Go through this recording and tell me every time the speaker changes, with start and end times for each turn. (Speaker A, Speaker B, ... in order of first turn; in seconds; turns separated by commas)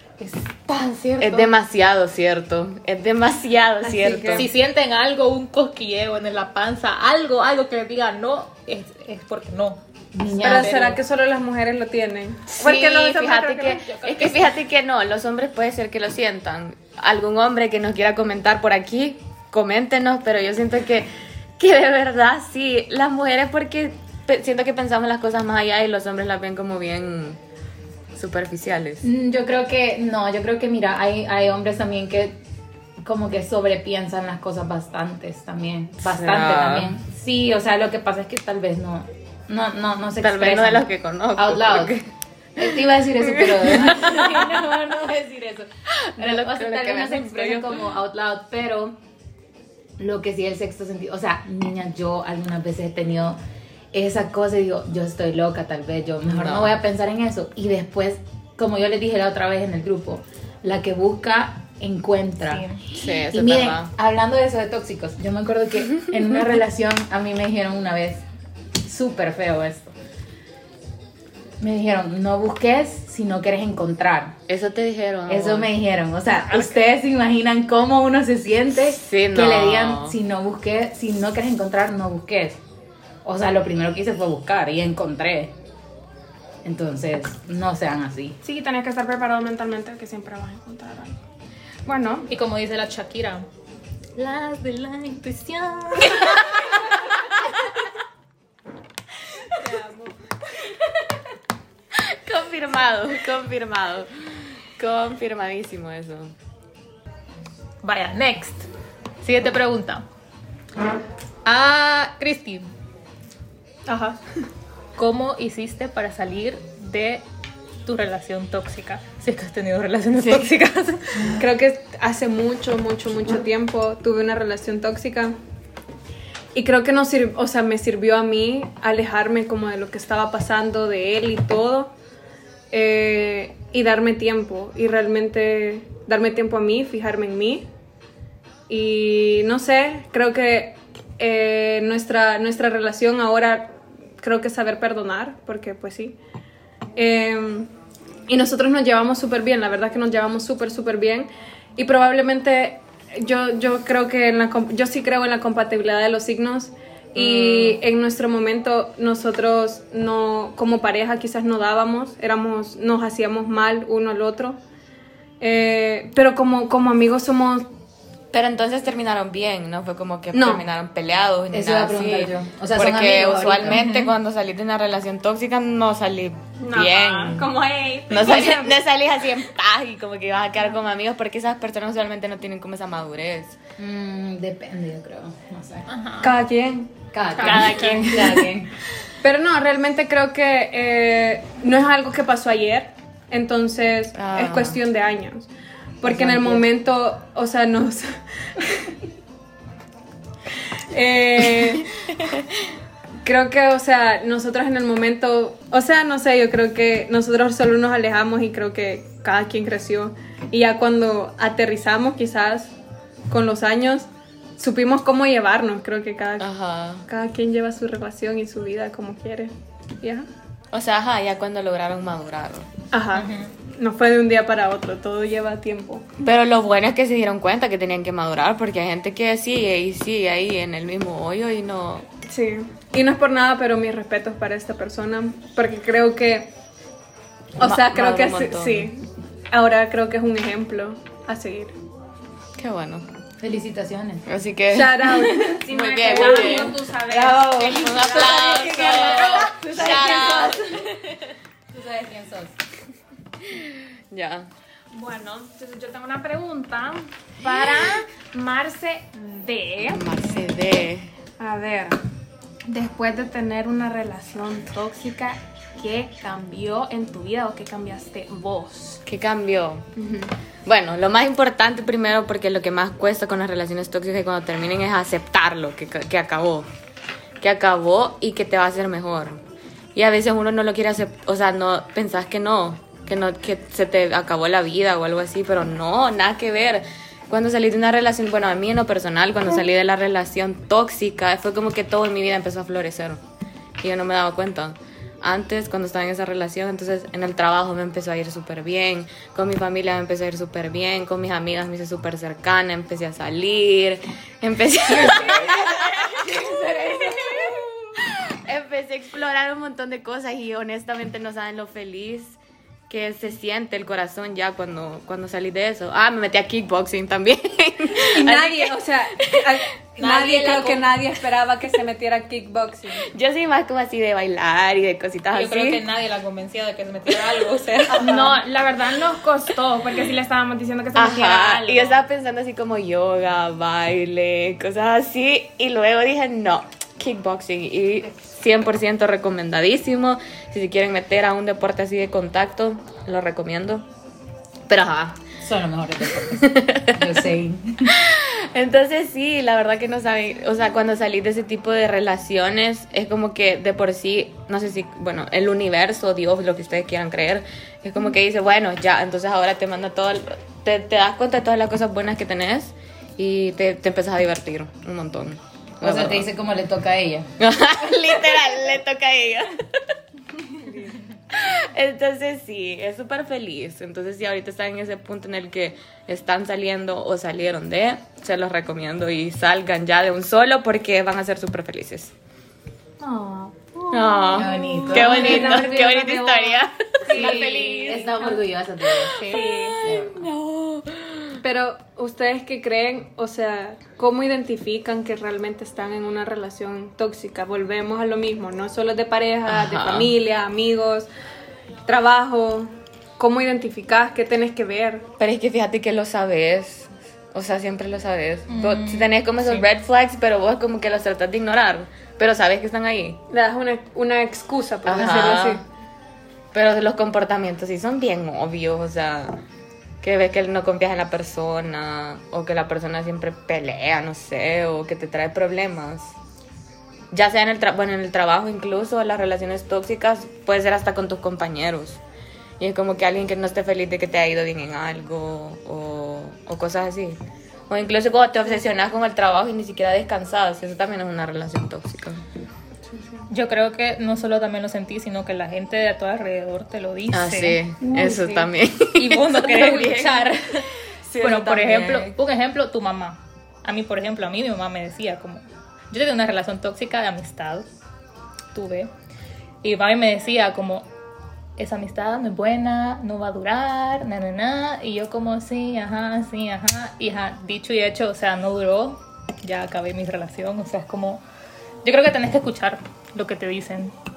Speaker A: 0.2-1.5, Speaker B: 1.2-4.5, Speaker C: 3.9-4.5, Speaker A: 4.3-9.8, Speaker D: 10.1-11.0, Speaker C: 10.4-13.8, Speaker A: 10.4-10.9, Speaker B: 12.5-27.4, Speaker A: 13.9-14.5, Speaker B: 28.1-29.1, Speaker D: 29.0-32.4, Speaker D: 33.0-42.0, Speaker B: 36.0-37.0, Speaker B: 40.2-44.6, Speaker D: 42.6-49.0, Speaker B: 46.0-47.8, Speaker D: 50.0-53.4, Speaker D: 53.9-68.2, Speaker B: 56.3-56.7, Speaker A: 62.5-62.8, Speaker B: 62.9-63.9, Speaker D: 68.8-69.9, Speaker D: 71.6-74.4, Speaker B: 74.5-75.7, Speaker D: 75.3-82.6, Speaker B: 79.0-80.2, Speaker D: 83.2-85.5, Speaker D: 86.6-88.4, Speaker E: 88.4-91.2, Speaker E: 91.9-92.3, Speaker A: 92.3-93.5, Speaker A: 94.2-96.5, Speaker E: 99.6-100.1, Speaker B: 102.0-106.3, Speaker A: 107.8-108.7, Speaker A: 109.2-110.0, Speaker A: 111.5-112.7, Speaker C: 113.9-114.2, Speaker A: 115.0-117.2, Speaker A: 117.8-121.4, Speaker B: 120.2-120.5, Speaker C: 121.4-125.3, Speaker C: 126.5-131.9, Speaker C: 132.7-137.7, Speaker C: 138.7-146.2, Speaker C: 147.0-147.7, Speaker C: 148.3-164.6, Speaker B: 157.2-157.8, Speaker C: 165.4-167.7, Speaker B: 168.3-177.5, Speaker C: 170.3-170.6, Speaker D: 171.5-173.8, Speaker A: 173.7-174.2, Speaker E: 176.6-178.8, Speaker B: 178.1-183.6, Speaker D: 183.8-185.9, Speaker A: 185.9-186.3, Speaker C: 186.2-188.5, Speaker D: 187.1-188.7, Speaker A: 187.4-188.3, Speaker B: 188.1-188.5, Speaker C: 189.2-195.5, Speaker B: 194.2-194.8, Speaker C: 196.0-198.9, Speaker D: 196.0-196.7, Speaker C: 200.9-201.9, Speaker C: 203.2-212.7, Speaker C: 213.3-216.5, Speaker B: 216.4-217.1, Speaker C: 217.1-220.3, Speaker B: 220.7-222.7, Speaker C: 222.9-226.1, Speaker A: 223.1-223.5, Speaker B: 226.2-232.1, Speaker C: 232.3-236.5, Speaker C: 237.6-241.8, Speaker B: 237.6-238.9, Speaker B: 242.6-243.1, Speaker D: 243.4-244.2, Speaker B: 244.3-246.8, Speaker C: 244.7-246.5, Speaker E: 245.6-248.5, Speaker D: 246.1-251.0, Speaker B: 247.5-250.9, Speaker C: 248.4-250.6, Speaker D: 251.7-252.6, Speaker B: 253.4-254.5, Speaker E: 254.9-260.2, Speaker B: 259.9-261.1, Speaker E: 261.4-262.0, Speaker E: 262.7-269.0, Speaker B: 269.1-269.9, Speaker E: 270.0-270.3, Speaker B: 270.7-276.7, Speaker B: 277.4-279.4, Speaker B: 279.9-293.2, Speaker B: 293.8-306.3, Speaker D: 304.9-307.7, Speaker B: 307.0-312.4, Speaker B: 312.9-319.5, Speaker C: 317.9-323.1, Speaker A: 320.0-320.9, Speaker B: 323.1-325.8, Speaker A: 325.3-328.3, Speaker B: 327.1-327.4, Speaker C: 327.9-328.3, Speaker E: 328.0-332.0, Speaker B: 331.0-343.9, Speaker B: 344.7-345.3, Speaker D: 345.4-347.9, Speaker B: 346.4-347.1, Speaker B: 347.9-366.3, Speaker D: 365.8-367.3, Speaker B: 367.4-369.8, Speaker B: 371.3-382.1, Speaker E: 383.1-385.6, Speaker B: 383.9-389.1, Speaker D: 384.3-386.5, Speaker C: 385.1-385.9, Speaker D: 387.1-389.2, Speaker C: 387.1-387.9, Speaker E: 387.1-387.7, Speaker E: 389.2-389.8, Speaker D: 389.8-390.3, Speaker B: 389.8-391.4, Speaker C: 391.4-401.1, Speaker B: 399.5-400.1, Speaker C: 401.9-405.1, Speaker B: 405.2-413.2, Speaker A: 408.5-409.7, Speaker C: 413.3-415.6, Speaker B: 414.9-415.6, Speaker B: 416.5-419.4, Speaker B: 420.0-426.1, Speaker B: 427.1-432.0, Speaker B: 432.6-437.2, Speaker B: 437.7-442.2, Speaker A: 443.3-448.3, Speaker B: 447.1-450.4, Speaker E: 447.9-448.4, Speaker A: 448.9-457.7, Speaker B: 451.1-452.1, Speaker A: 458.5-458.9, Speaker A: 459.6-460.9, Speaker A: 461.6-471.2, Speaker A: 471.8-473.9